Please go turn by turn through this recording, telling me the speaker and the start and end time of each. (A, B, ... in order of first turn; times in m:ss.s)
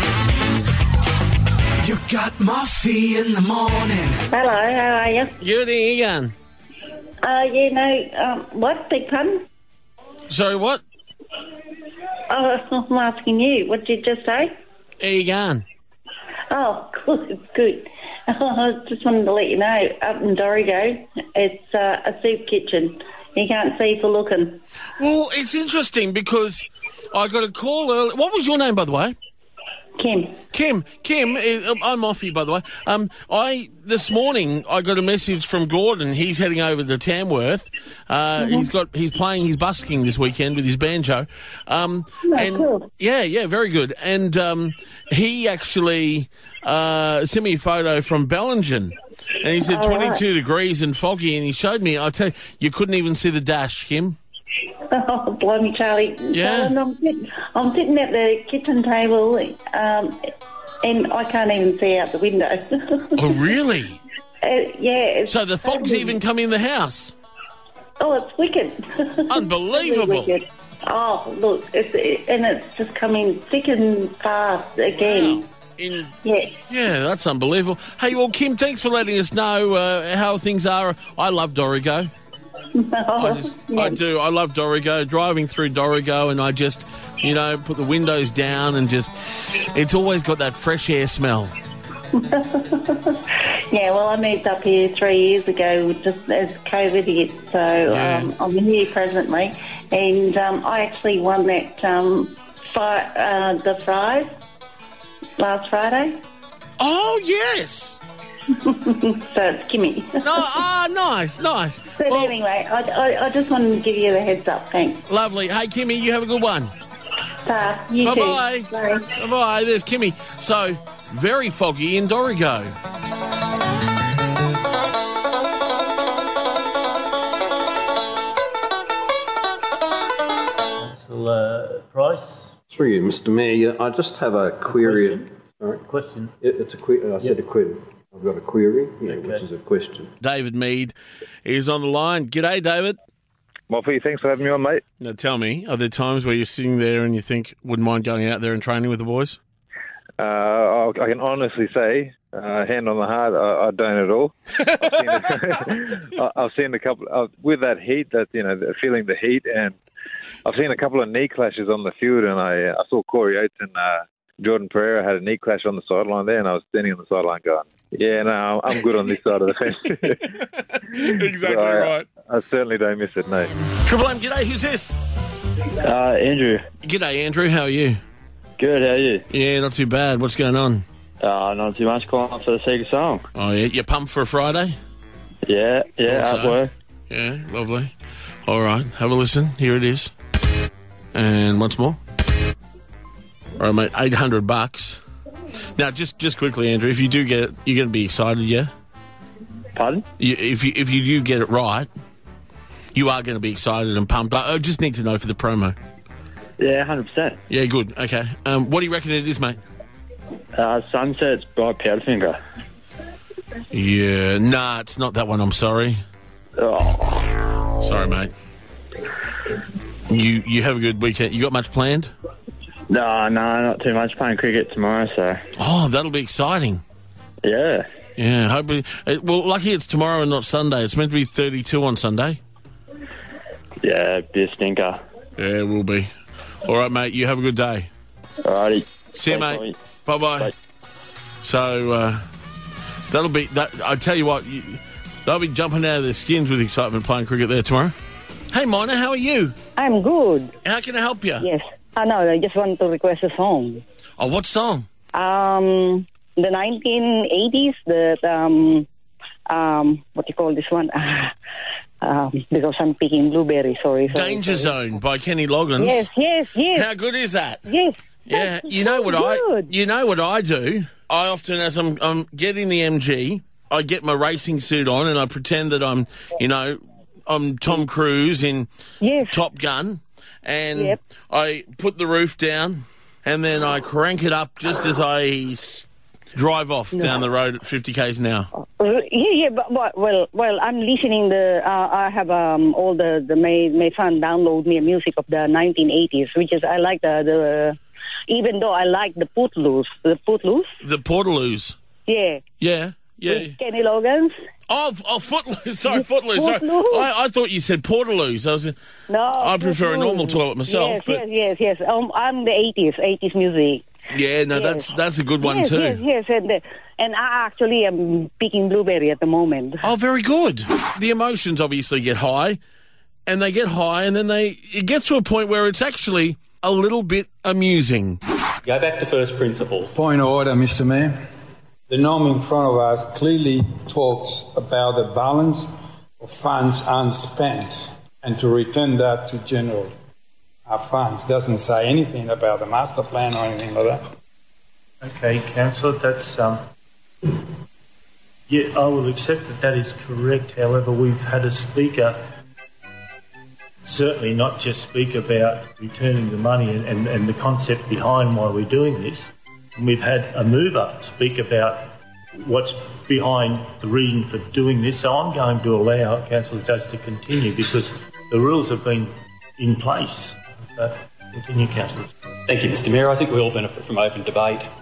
0:01.9-0:04.0 A
0:04.3-0:05.3 B
0:05.4-0:06.3 C
0:07.2-0:09.4 B
0:10.3-0:10.8 C
0:12.3-0:14.5 B
0:15.0-0:15.6 C
0:16.5-0:24.6 B
0:25.0-0:29.2 C
0:30.0-0:30.4 B
0:30.5-0:54.2 C
0:38.4-0:38.7 B
0:42.3-0:42.9 B
0:49.7-0:50.2 B
0:54.9-1:00.2 B
0:56.3-0:56.8 C
1:00.8-1:03.6 B
1:03.2-1:04.0 C
1:04.4-1:06.2 B
1:05.3-1:07.1 C
1:08.0-1:15.4 B
1:09.3-1:10.3 C
1:15.0-1:16.2 C
1:16.2-1:16.5 B
1:16.7-1:22.1 C
1:22.8-1:24.0 B
1:23.2-1:31.5 C
1:32.1-1:44.3 B
1:37.9-1:38.3 C
1:45.4-1:46.2 B
1:46.8-1:48.0 C
1:48.5-1:50.5 B
1:50.2-1:52.4 C
1:52.0-1:55.0 B
1:55.1-1:56.8 C
1:57.4-1:59.1 B
1:58.0-2:02.7 C
2:10.8-2:12.5 D
2:12.7-2:15.8 E
2:14.6-2:15.3 D
2:15.8-2:16.4 D
2:16.4-2:20.1 E
2:19.0-2:19.5 D
2:20.2-2:23.0 C
2:23.7-2:24.8 F
2:25.0-2:29.4 C
2:30.2-2:39.8 F
2:40.4-2:50.2 F
2:50.4-2:52.1 C
2:51.3-2:53.5 F
2:53.8-2:55.0 C
2:55.8-2:56.7 G
2:56.8-2:58.0 C
2:58.6-2:59.2 G
2:59.3-3:00.8 C
3:01.2-3:03.3 G
3:03.4-3:04.7 C
3:05.4-3:06.7 G
3:06.0-3:07.9 C
3:08.5-3:10.1 C
3:11.1-3:12.0 C
3:13.6-3:15.0 C
3:15.8-3:18.7 C
3:19.7-3:20.0 G
3:20.2-3:21.9 C
3:23.0-3:25.8 C
3:26.6-3:27.4 G
3:27.5-3:29.6 C
3:30.6-3:32.4 G
3:33.7-3:36.0 C
3:36.6-3:37.3 G
3:37.8-3:38.3 C
3:40.1-3:42.1 C
3:42.9-3:45.4 G
3:45.6-3:46.8 C
3:47.4-3:47.9 G
3:48.2-3:52.4 C
3:53.8-3:55.0 G
3:55.4-3:56.1 C
3:56.6-3:57.9 C
3:58.4-3:59.8 G
3:59.1-4:00.5 C
4:01.4-4:02.2 C
4:03.1-4:07.9 C
4:08.5-4:09.6 C
4:09.8-4:10.5 H
4:10.6-4:11.5 C
4:11.4-4:13.8 H
4:14.2-4:14.9 C
4:15.1-4:18.9 H
4:19.5-4:21.3 H
4:22.0-4:24.8 H
4:24.1-4:26.1 C
4:25.8-4:26.9 H
4:26.7-4:27.7 C
4:27.7-4:29.7 H
4:28.3-4:38.7 C
4:39.0-4:39.4 H
4:39.3-4:48.5 C
4:48.8-5:00.7 H
5:00.8-5:01.8 C
5:02.1-5:02.4 H
5:02.6-5:03.6 C
5:03.3-5:04.3 H
5:04.7-5:08.8 C
5:05.9-5:07.1 H
5:09.1-5:13.8 H
5:09.4-5:11.2 C
5:14.1-5:16.0 C
5:14.5-5:19.8 H
5:19.8-5:22.6 C
5:23.3-5:28.2 C
5:28.6-5:30.0 I
5:29.9-5:31.2 J
5:31.9-5:40.0 J
5:40.6-5:44.1 J
5:45.0-5:46.6 D
5:48.5-5:52.2 D
5:53.8-6:12.1 D
6:12.5-6:14.6 I